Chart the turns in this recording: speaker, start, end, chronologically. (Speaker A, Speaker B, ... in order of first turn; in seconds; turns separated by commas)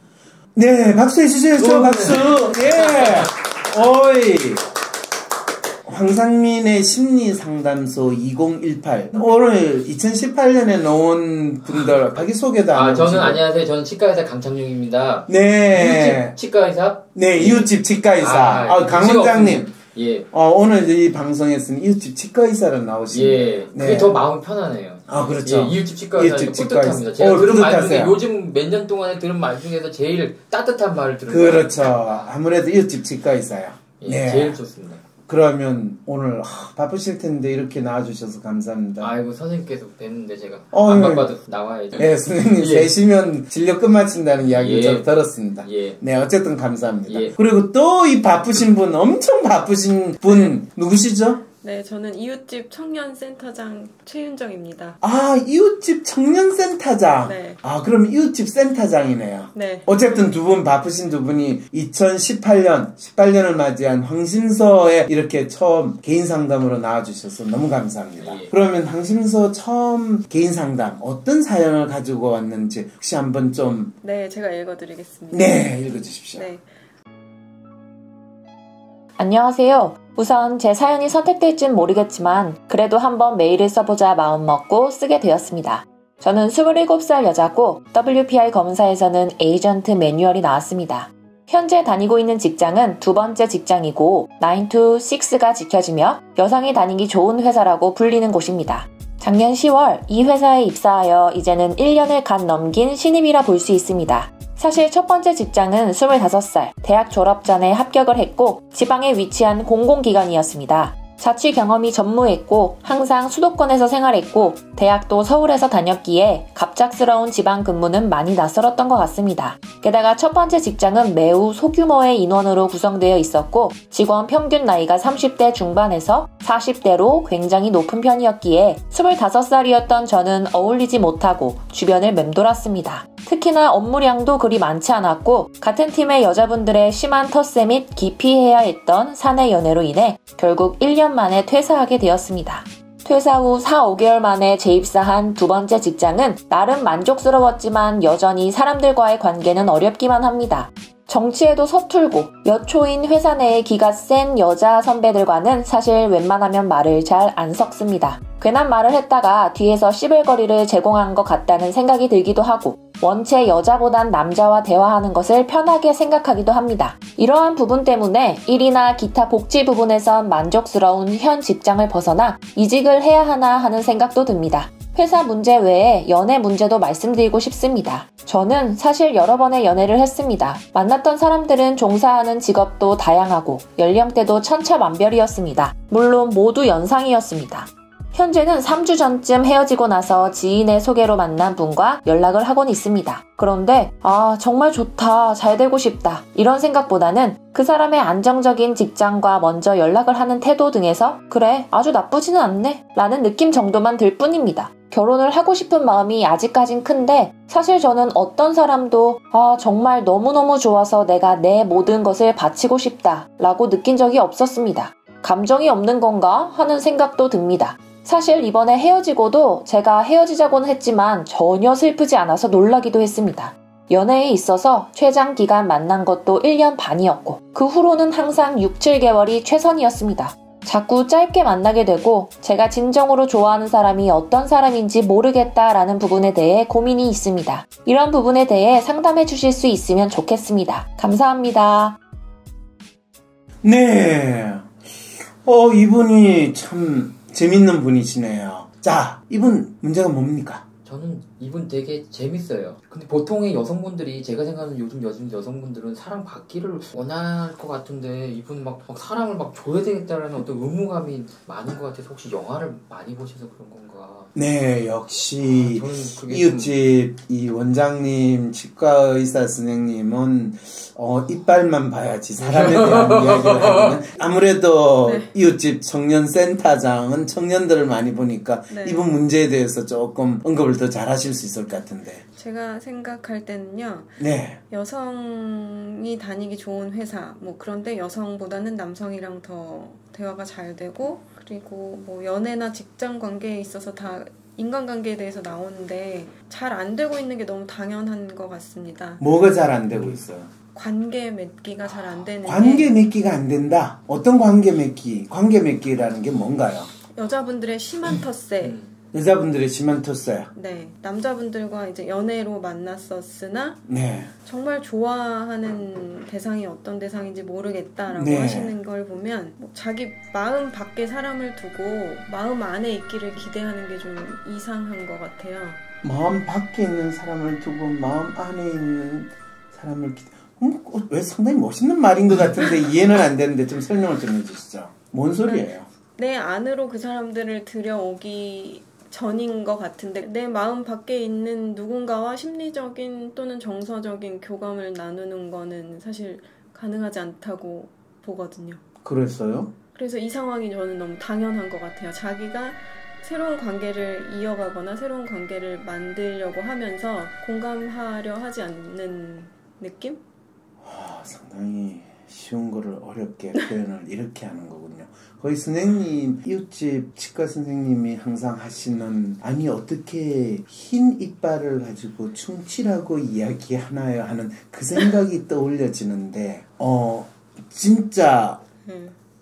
Speaker A: 0.6-4.7, Speaker B: 1.6-3.3, Speaker A: 5.8-13.4, Speaker B: 12.7-20.3, Speaker A: 15.3-16.4, Speaker A: 17.1-19.7, Speaker A: 20.3-24.3, Speaker B: 23.1-32.3, Speaker A: 25.1-28.2, Speaker A: 31.3-34.6, Speaker B: 34.0-35.0, Speaker A: 35.3-39.1, Speaker B: 39.0-42.9, Speaker A: 40.7-41.3, Speaker A: 42.0-51.4, Speaker B: 44.4-45.1, Speaker B: 45.6-46.0, Speaker B: 47.1-47.4, Speaker C: 50.3-50.5, Speaker C: 51.6-55.0, Speaker A: 55.0-74.0, Speaker C: 57.2-57.6, Speaker C: 59.5-59.9, Speaker B: 68.2-68.5, Speaker C: 74.0-75.7, Speaker A: 75.3-76.5, Speaker C: 76.4-76.7, Speaker D: 79.2-242.0, Speaker A: 243.6-250.6, Speaker B: 250.8-264.3, Speaker A: 264.4-282.2, Speaker B: 265.4-266.8, Speaker B: 272.4-274.1, Speaker C: 275.0-275.3, Speaker C: 278.7-279.1, Speaker C: 282.4-299.2, Speaker A: 284.2-284.6, Speaker A: 299.2-300.5, Speaker B: 299.9-300.2, Speaker C: 300.7-302.9, Speaker A: 302.4-306.9, Speaker C: 307.1-308.8, Speaker B: 308.6-308.9, Speaker A: 309.1-310.5, Speaker C: 310.5-313.8, Speaker A: 313.9-314.3, Speaker C: 314.5-325.8, Speaker A: 318.1-318.8, Speaker A: 326.0-335.9, Speaker C: 335.4-348.8, Speaker A: 349.0-349.7, Speaker C: 349.9-360.2, Speaker A: 360.8-378.6, Speaker C: 378.9-379.1